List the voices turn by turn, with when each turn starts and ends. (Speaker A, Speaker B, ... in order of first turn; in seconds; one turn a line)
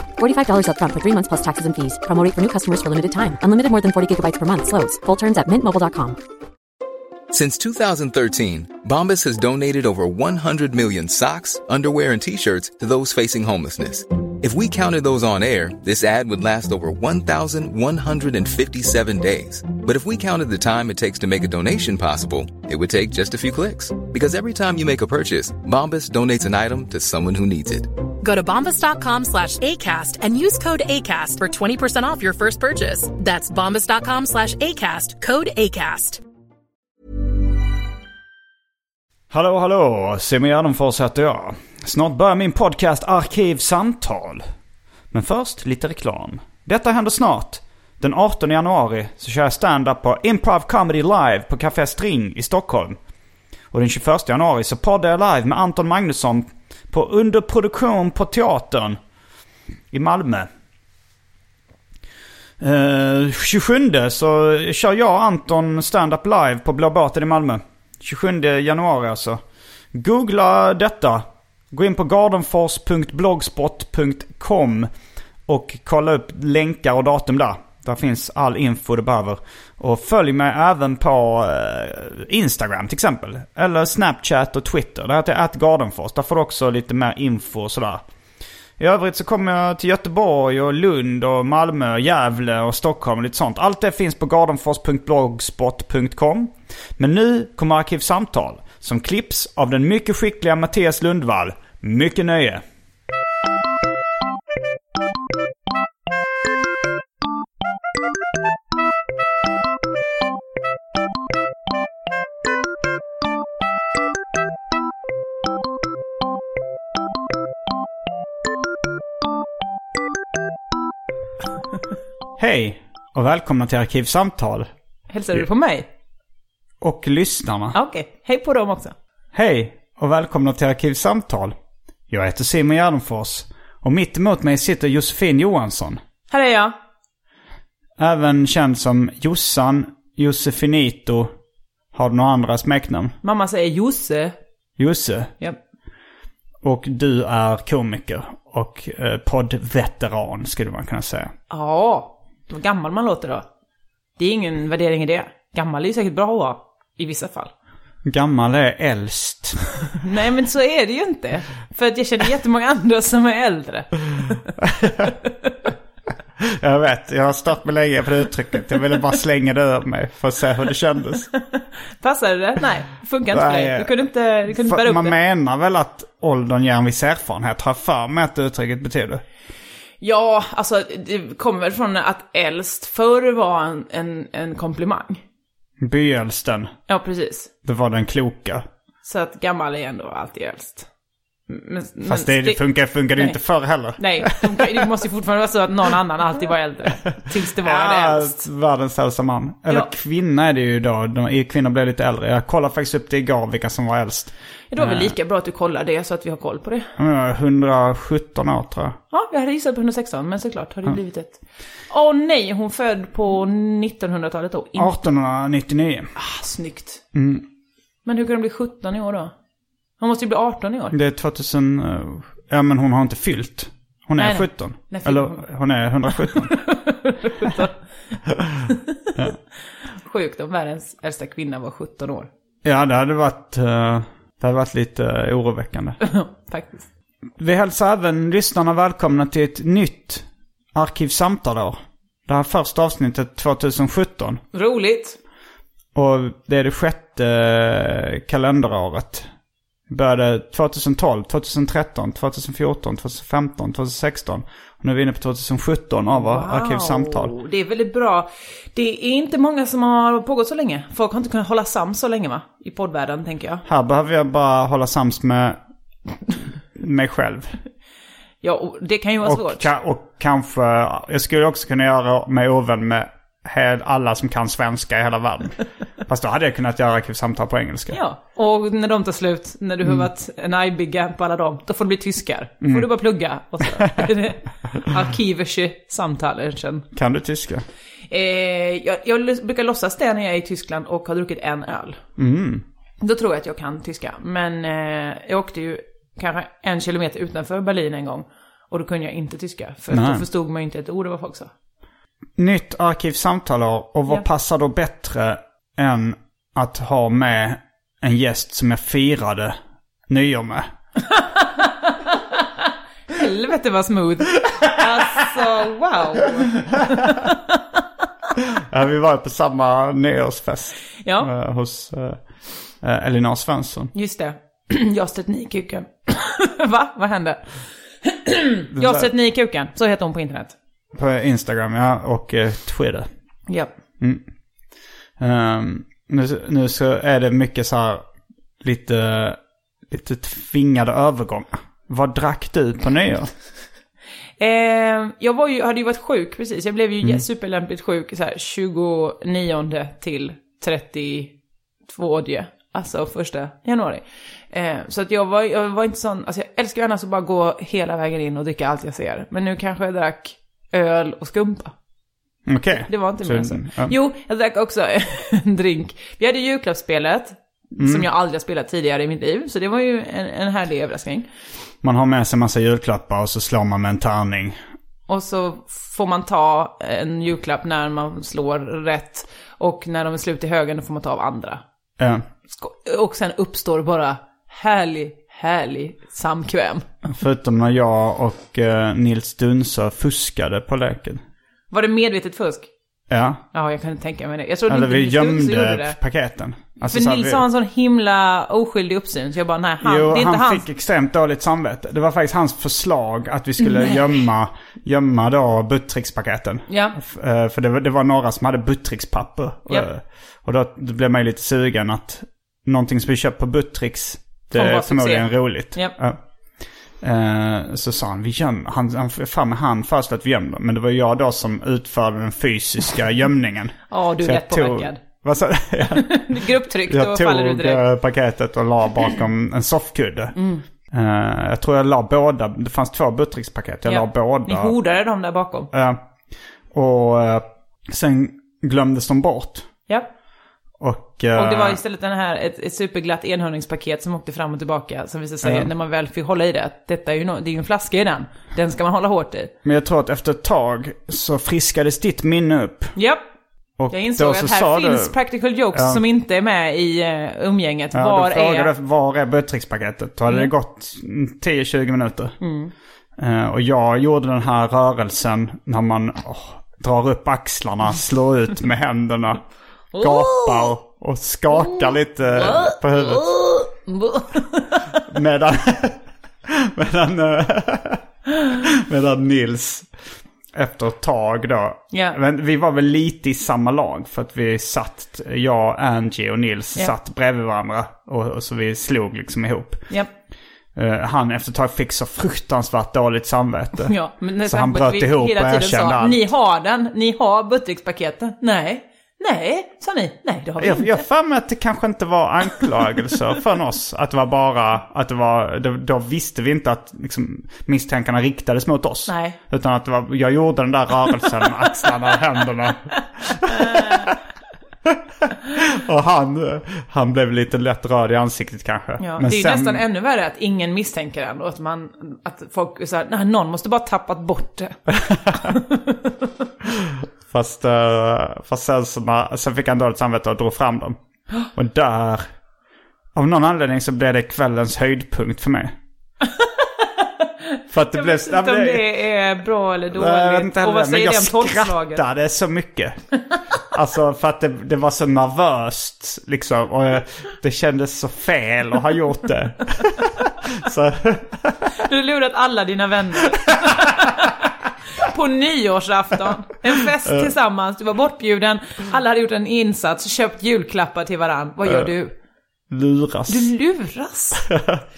Speaker A: 0.2-6.2
Speaker B: 7.3-27.9
Speaker C: 28.2-36.2
Speaker D: 39.3-44.5
Speaker D: 45.1-53.0
Speaker D: 53.7-59.0
Speaker D: 59.9-60.5
Speaker D: 62.6-69.4
Speaker D: 69.9-74.9
Speaker D: 75.5-88.0
Speaker D: 88.8-102.6
Speaker D: 122.4-124.7
Speaker E: 125.1-125.9
Speaker D: 126.8-127.8
Speaker E: 127.7-128.9
Speaker D: 129.3-131.6
Speaker D: 132.1-136.0
Speaker E: 136.3-136.8
Speaker D: 138.0-141.3
Speaker D: 141.9-143.2
Speaker E: 143.2-144.4
Speaker D: 144.8-145.3
Speaker D: 146.6-151.3
Speaker E: 151.5-153.4
Speaker E: 154.2-157.5
Speaker D: 158.1-159.6
Speaker E: 160.0-164.4
Speaker D: 164.6-165.1
Speaker D: 166.4-171.3
Speaker E: 172.0-175.2
Speaker D: 173.3-173.9
Speaker D: 174.5-179.2
Speaker E: 180.0-185.2
Speaker D: 185.8-186.7
Speaker E: 186.9-187.5
Speaker D: 187.6-188.7
Speaker E: 189.0-190.9
Speaker E: 191.5-193.4
Speaker D: 192.1-194.9
Speaker E: 193.9-198.4
Speaker D: 197.6-205.1
Speaker E: 204.7-206.9
Speaker D: 207.0-209.0
Speaker E: 209.1-211.4
Speaker E: 211.9-215.0
Speaker D: 214.8-216.1
Speaker E: 216.2-217.0
Speaker D: 217.1-217.4
Speaker E: 218.1-219.3
Speaker E: 220.0-220.9
Speaker D: 220.9-226.6
Speaker E: 224.2-225.4
Speaker E: 226.3-227.8
Speaker E: 230.0-232.3
Speaker D: 232.6-236.0
Speaker E: 236.0-236.9
Speaker D: 237.4-244.4
Speaker E: 244.5-245.2
Speaker D: 245.9-249.3
Speaker D: 249.9-257.3
Speaker E: 256.1-263.6
Speaker D: 263.7-265.6
Speaker D: 266.8-267.6
Speaker E: 268.4-269.7
Speaker D: 269.2-278.0
Speaker E: 277.9-286.9
Speaker D: 282.6-282.9
Speaker D: 283.8-284.1
Speaker D: 286.9-287.6
Speaker E: 288.1-292.0
Speaker D: 292.2-292.6
Speaker E: 293.0-301.5
Speaker D: 299.9-300.2
Speaker D: 302.4-309.6
Speaker D: 310.1-310.7
Speaker E: 311.1-312.5
Speaker E: 313.1-317.6
Speaker D: 316.7-317.1
Speaker D: 318.7-322.2
Speaker E: 321.0-321.3
Speaker D: 322.8-323.9
Speaker E: 323.9-327.4
Speaker E: 328.0-330.6
Speaker D: 328.8-329.1
Speaker D: 330.9-333.1
Speaker D: 335.2-338.0
Speaker D: 338.6-343.3
Speaker E: 344.4-351.3
Speaker E: 351.9-361.7
Speaker D: 362.5-363.9
Speaker E: 362.7-371.3
Speaker D: 367.8-368.1
Speaker D: 371.8-374.6
Speaker E: 375.1-381.6
Speaker D: 382.0-382.2
Speaker E: 382.5-386.9
Speaker D: 387.1-391.2
Speaker E: 391.7-392.7
Speaker D: 393.1-393.4
Speaker E: 393.5-396.0
Speaker D: 394.7-397.4
Speaker E: 396.9-400.7
Speaker D: 399.8-416.2
Speaker E: 403.6-404.1
Speaker E: 406.7-407.0
Speaker E: 414.6-416.0
Speaker D: 417.0-430.4
Speaker E: 423.9-425.0
Speaker E: 425.9-427.9
Speaker E: 430.4-430.6
Speaker D: 430.9-434.8
Speaker E: 433.9-435.7
Speaker D: 435.7-436.0
Speaker D: 436.7-439.7
Speaker D: 440.8-441.8
Speaker E: 441.3-449.5
Speaker D: 445.4-445.7
Speaker D: 449.6-452.9
Speaker E: 453.0-453.2
Speaker D: 453.8-455.1
Speaker E: 453.9-458.7
Speaker D: 455.7-456.0
Speaker D: 457.9-462.4
Speaker E: 462.4-462.7
Speaker D: 463.2-469.4
Speaker E: 469.9-470.8
Speaker D: 470.0-473.4
Speaker E: 471.5-475.0
Speaker D: 475.1-479.9
Speaker D: 480.5-489.8
Speaker E: 481.9-482.2
Speaker D: 490.8-496.3
Speaker E: 493.9-501.0
Speaker D: 500.6-514.1
Speaker E: 509.1-509.4
Speaker E: 513.5-514.1
Speaker D: 514.9-519.8
Speaker E: 519.0-524.8
Speaker D: 524.9-525.5
Speaker E: 525.3-526.1
Speaker D: 526.8-531.0
Speaker D: 531.5-532.2
Speaker D: 533.1-535.8
Speaker E: 536.4-542.0
Speaker D: 537.7-538.9
Speaker D: 539.9-543.0
Speaker D: 543.7-551.7
Speaker E: 551.8-562.1
Speaker D: 562.7-563.5
Speaker E: 563.3-564.5
Speaker D: 564.5-564.8